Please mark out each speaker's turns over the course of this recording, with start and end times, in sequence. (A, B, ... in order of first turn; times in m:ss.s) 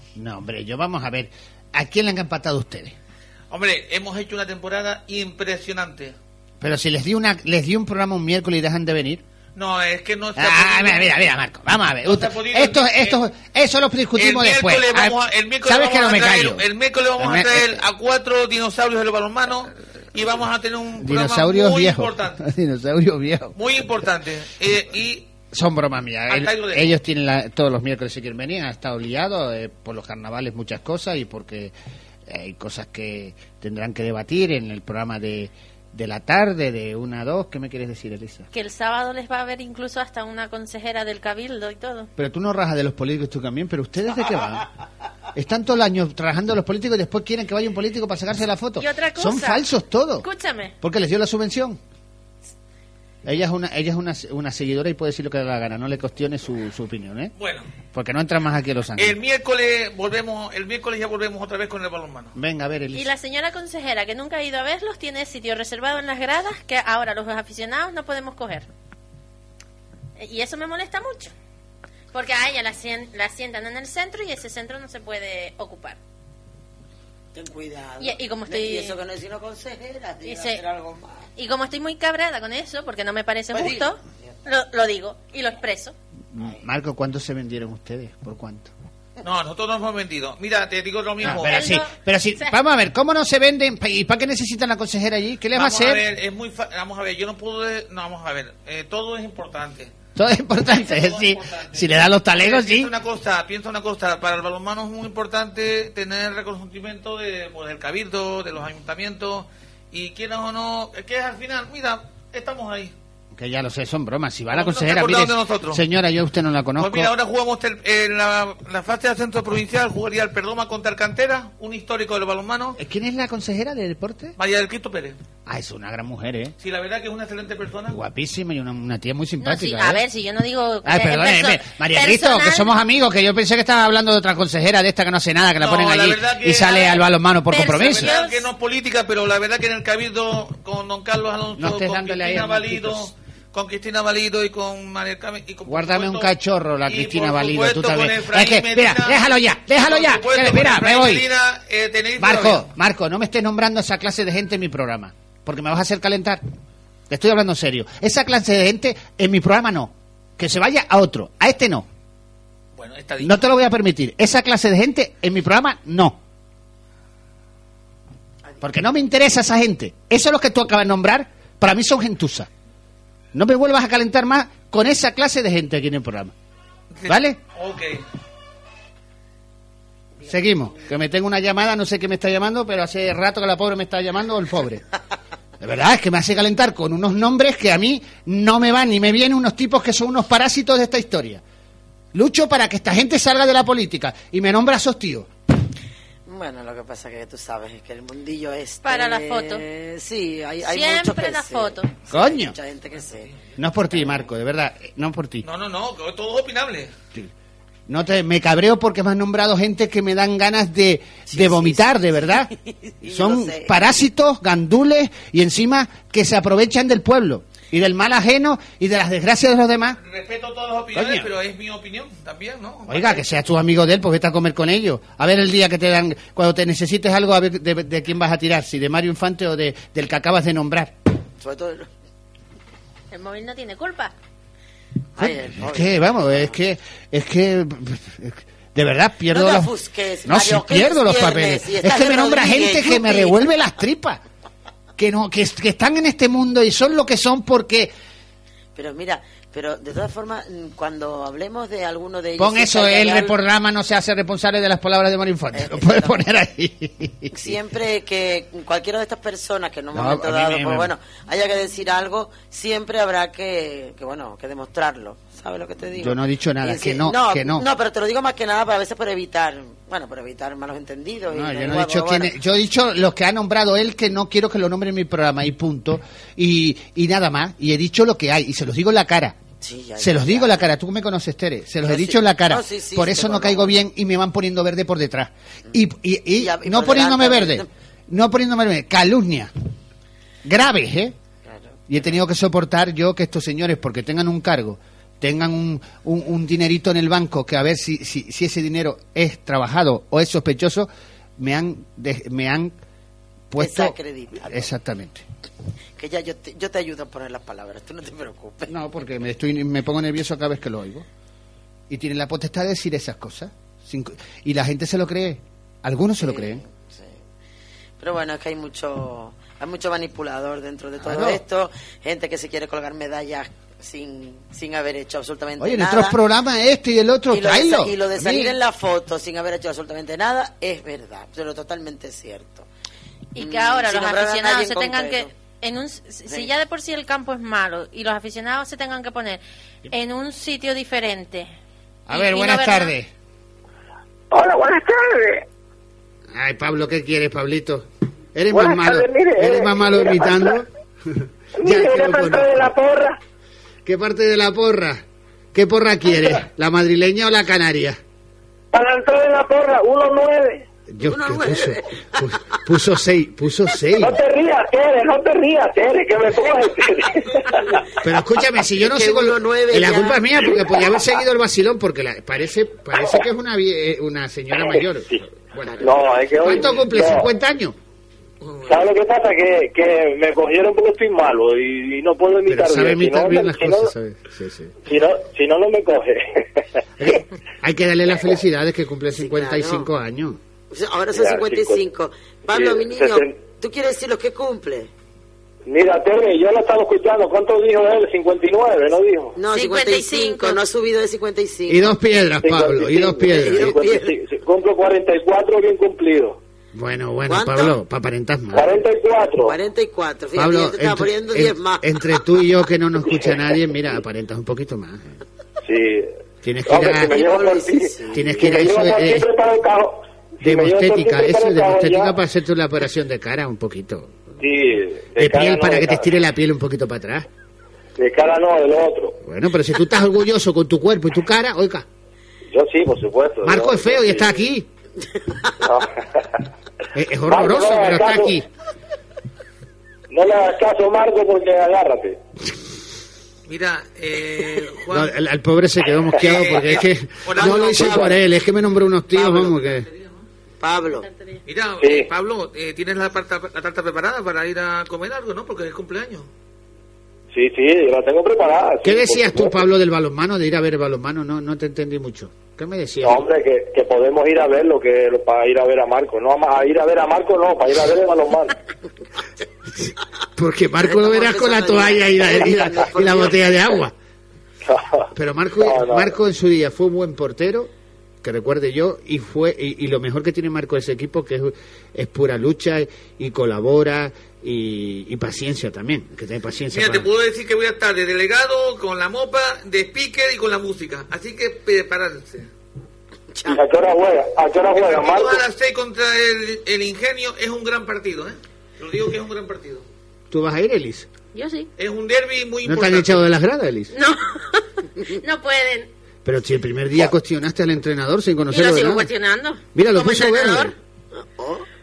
0:00.1-0:03.0 A
0:03.5-0:06.1 B
0:06.6-0:09.2 A
0:09.6-0:11.1 B
0:10.4-0:16.6 A
0:12.0-0:13.2 B
0:14.2-0:22.4 B
0:17.2-0:17.8 A
0:21.0-0:23.5 A
0:23.5-0:25.3 B
0:25.5-0:31.7 A
0:26.3-0:26.9 B
0:32.2-0:38.5 A
0:38.5-0:42.1 C
0:42.2-0:44.7 A
0:45.3-0:50.3 A
0:48.8-0:49.6 C
0:50.2-0:50.7 C
0:50.8-0:51.8 A
0:53.2-0:57.3 A
0:57.4-0:57.7 B
0:57.8-0:59.2 A
0:59.0-1:02.3 B
1:02.3-1:03.1 A
1:02.9-1:08.7 C
1:10.2-1:11.3 C
1:12.1-1:16.0 C
1:17.3-1:21.2 D
1:18.0-1:19.0 C
1:20.2-1:20.6 C
1:21.4-1:25.9 C
1:23.5-1:23.9 D
1:26.3-1:28.7 A
1:29.2-1:31.6 B
1:31.2-1:36.0 A
1:31.3-1:32.6 C
1:35.5-1:39.9 B
1:40.2-1:42.9 A
1:40.7-1:52.9 B
1:53.3-1:57.1 A
1:54.5-1:55.8 B
1:56.8-2:02.8 B
2:02.8-2:04.3 A
2:04.4-2:05.2 B
2:05.4-2:06.5 A
2:06.6-2:08.0 B
2:07.9-2:10.0 A
2:09.4-2:12.7 C
2:10.8-2:18.1 A
2:15.6-2:17.0 B
2:17.5-2:18.4 C
2:17.7-2:26.3 B
2:21.6-2:23.1 A
2:25.7-2:31.2 A
2:26.9-2:32.6 B
2:32.2-2:36.4 A
2:37.1-2:41.8 A
2:42.8-2:43.4 B
2:43.2-2:46.2 A
2:48.6-2:52.5 A
2:53.3-2:56.3 A
2:56.9-2:58.0 B
2:57.1-2:57.4 A
3:00.3-3:04.8 A
3:05.6-3:11.4 A
3:12.1-3:15.3 A
3:16.3-3:23.4 D
3:18.8-3:19.6 C
3:20.6-3:21.9 C
3:22.1-3:22.6 A
3:23.6-3:25.4 A
3:23.9-3:24.2 D
3:25.4-3:26.9 B
3:27.9-3:32.5 A
3:31.3-3:33.7 D
3:33.0-3:40.0 A
3:40.0-3:43.2 B
3:40.9-3:41.3 A
3:42.9-3:50.9 A
3:51.4-3:51.9 D
3:53.1-3:54.1 C
3:55.2-3:56.5 D
3:55.2-3:59.7 A
3:59.3-4:03.5 D
4:00.2-4:04.2 A
4:05.0-4:07.9 A
4:08.8-4:13.3 D
4:12.4-4:17.6 A
4:15.5-4:16.1 D
4:17.3-4:32.3 D
4:19.9-4:20.9 A
4:26.0-4:27.6 A
4:31.3-4:39.4 A
4:39.6-4:40.7 D
4:40.0-4:49.5 A
4:41.8-4:43.8 D
4:46.4-4:47.7 D
4:50.4-4:51.2 A
4:51.4-4:51.8 D
4:51.9-5:02.7 A
5:03.5-5:05.2 A
5:03.6-5:04.7 D
5:06.0-5:08.7 D
5:08.7-5:11.1 A
5:11.9-5:16.6 A
5:16.2-5:17.2 D
5:18.0-5:26.2 D
5:21.0-5:21.4 A
5:25.6-5:28.5 A
5:27.3-5:32.7 D
5:33.3-5:41.5 C
5:33.4-5:35.3 D
5:42.1-5:43.1 A
5:42.1-5:42.9 C
5:44.3-5:45.4 E
5:46.3-5:52.7 A
5:48.5-5:50.6 E
5:51.6-5:53.2 E
5:53.8-5:58.0 A
5:58.7-6:00.6 E
6:00.9-6:04.2 A
6:01.0-6:02.2 D
6:04.0-6:07.7 E
6:08.0-6:17.8 A
6:08.8-6:10.4 D
6:15.8-6:17.3 E
6:18.4-6:18.8 B
6:18.6-6:23.9 E
6:22.4-6:24.8 A
6:24.8-6:27.2 E
6:27.0-6:30.4 A
6:29.2-6:29.9 D
6:30.7-6:34.9 D
6:31.1-6:31.8 E
6:32.5-6:33.4 E
6:35.6-6:39.4 E
6:39.4-6:41.9 D
6:39.5-6:40.6 C
6:41.7-6:43.7 A
6:42.4-6:46.4 E
6:43.1-6:44.2 D
6:46.7-6:48.7 A
6:47.3-6:47.8 D
6:48.5-6:49.5 E
6:49.4-6:51.9 D
6:50.3-6:55.1 A
6:55.6-6:56.1 E
6:56.4-6:57.1 A
6:56.6-7:02.1 E
6:56.7-6:58.8 D
6:58.1-6:59.3 A
7:00.4-7:04.2 A
7:04.4-7:06.1 E
7:05.2-7:07.3 A
7:08.0-7:09.2 E
7:09.2-7:11.8 A
7:12.5-7:14.3 E
7:13.4-7:14.7 A
7:15.6-7:16.0 E
7:16.9-7:18.5 A
7:17.3-7:18.3 E
7:20.1-7:22.2 E
7:23.5-7:25.1 B
7:24.9-7:29.9 A
7:26.2-7:28.0 B
7:27.3-7:28.2 D
7:29.3-7:30.2 B
7:30.6-7:31.1 D
7:31.0-7:31.4 C
7:31.5-7:36.3 B
7:31.8-7:32.1 E
7:37.3-7:39.6 E
7:38.8-7:43.2 A
7:43.0-7:48.5 E
7:49.8-7:53.9 A
7:50.8-7:53.8 D
7:54.6-7:56.1 E
7:55.1-7:57.7 A
7:58.2-8:07.1 A
8:06.7-8:12.5 B
8:13.3-8:13.6 D
8:13.5-8:15.4 E
8:14.6-8:19.8 B
8:20.3-8:21.1 A
8:21.3-8:21.7 C
8:21.8-8:23.2 B
8:22.6-8:23.9 A
8:23.9-8:25.9 C
8:26.2-8:29.1 A
8:28.5-8:30.7 C
8:29.7-8:30.7 A
8:31.1-8:31.6 D